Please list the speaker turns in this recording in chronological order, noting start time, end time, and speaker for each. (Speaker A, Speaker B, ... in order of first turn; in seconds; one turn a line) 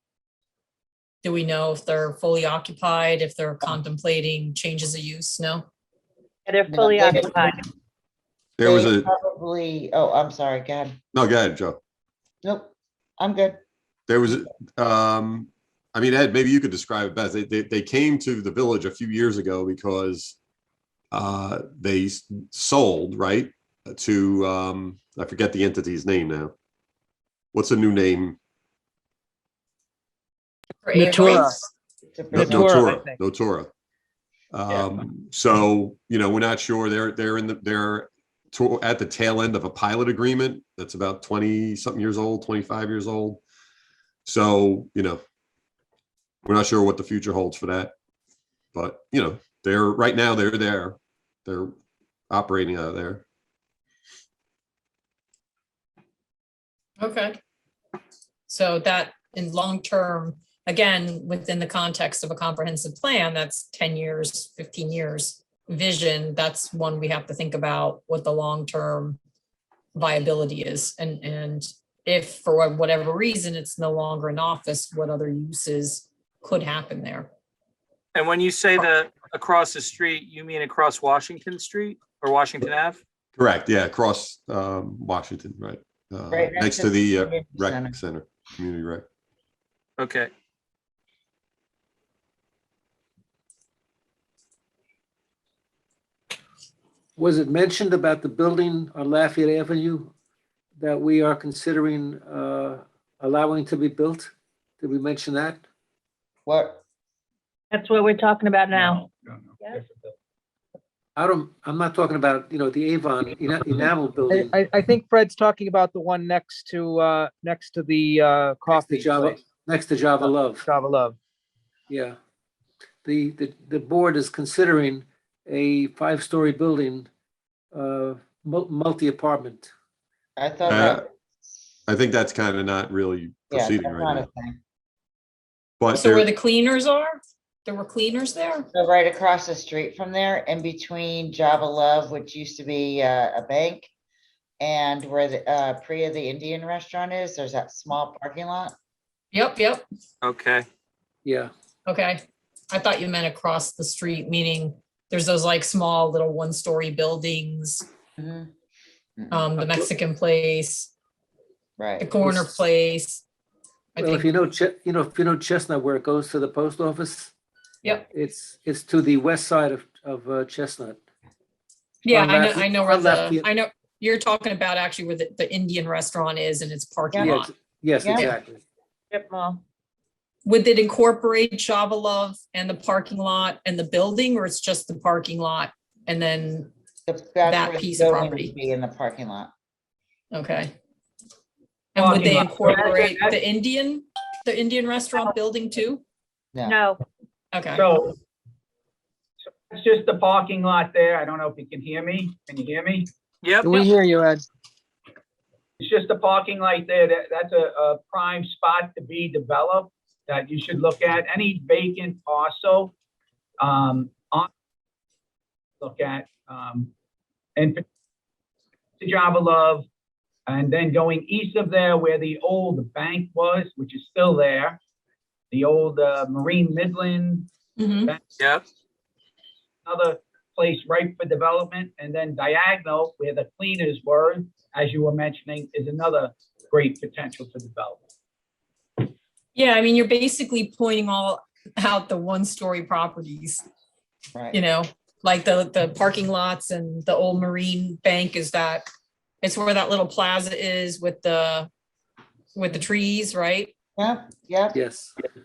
Speaker A: 1.2-5.7
Speaker B: 6.5-7.6
Speaker C: 6.7-7.6
Speaker D: 8.6-9.1
Speaker C: 8.6-11.0
Speaker D: 11.1-11.8
Speaker C: 12.4-13.6
Speaker D: 14.1-20.4
Speaker D: 21.1-26.5
Speaker D: 27.5-28.4
Speaker A: 30.9-31.5
Speaker C: 31.0-31.5
Speaker E: 31.0-31.6
Speaker C: 32.1-32.8
Speaker D: 32.3-33.7
Speaker E: 32.4-33.2
Speaker D: 34.5-43.4
Speaker D: 44.3-45.2
Speaker D: 46.4-47.9
Speaker D: 48.7-51.7
Speaker D: 52.3-53.2
Speaker A: 57.0-57.4
Speaker A: 58.5-69.2
Speaker A: 70.0-77.3
Speaker F: 78.2-83.0
Speaker D: 83.4-89.0
Speaker C: 86.3-88.0
Speaker F: 90.0-90.3
Speaker G: 97.2-100.1
Speaker G: 100.8-105.6
Speaker C: 106.5-106.8
Speaker B: 107.7-109.0
Speaker H: 108.7-110.2
Speaker G: 111.2-114.6
Speaker E: 114.3-119.4
Speaker G: 118.7-120.7
Speaker E: 120.2-121.2
Speaker G: 121.9-122.2
Speaker G: 123.0-127.1
Speaker G: 127.7-129.7
Speaker C: 130.4-131.1
Speaker D: 130.7-131.0
Speaker D: 131.9-134.3
Speaker C: 133.5-134.6
Speaker D: 135.8-136.3
Speaker A: 135.9-138.7
Speaker C: 138.7-143.9
Speaker C: 144.6-148.7
Speaker A: 149.3-149.8
Speaker F: 150.2-150.7
Speaker G: 151.2-151.5
Speaker A: 151.9-157.8
Speaker C: 158.2-158.5
Speaker C: 159.2-159.5
Speaker A: 159.3-160.9
Speaker C: 161.8-162.2
Speaker A: 162.0-163.2
Speaker G: 162.2-162.6
Speaker A: 163.9-164.3
Speaker G: 164.0-167.3
Speaker G: 168.1-171.0
Speaker A: 172.1-177.5
Speaker G: 172.1-173.5
Speaker C: 177.1-177.4
Speaker G: 177.2-178.6
Speaker C: 178.0-178.3
Speaker B: 179.1-179.6
Speaker A: 180.4-186.7
Speaker C: 187.1-189.5
Speaker A: 187.5-188.5
Speaker A: 190.3-190.8
Speaker A: 191.9-196.0
Speaker H: 192.0-193.4
Speaker C: 196.5-196.8
Speaker B: 196.6-197.0
Speaker A: 197.5-197.9
Speaker H: 197.7-198.2
Speaker H: 199.7-203.1
Speaker F: 203.4-203.9
Speaker E: 203.7-204.4
Speaker H: 205.8-212.9
Speaker H: 213.6-214.5
Speaker H: 215.8-216.9
Speaker H: 217.6-217.8
Speaker H: 219.0-219.9
Speaker H: 220.5-224.8
Speaker H: 225.5-227.5
Speaker A: 227.8-228.1
Speaker F: 228.4-228.7
Speaker H: 229.8-238.0
Speaker A: 239.6-243.6
Speaker C: 244.3-244.6
Speaker A: 244.5-248.8
Speaker A: 249.4-251.7
Speaker A: 252.6-253.7
Speaker C: 254.0-254.8
Speaker G: 254.7-255.1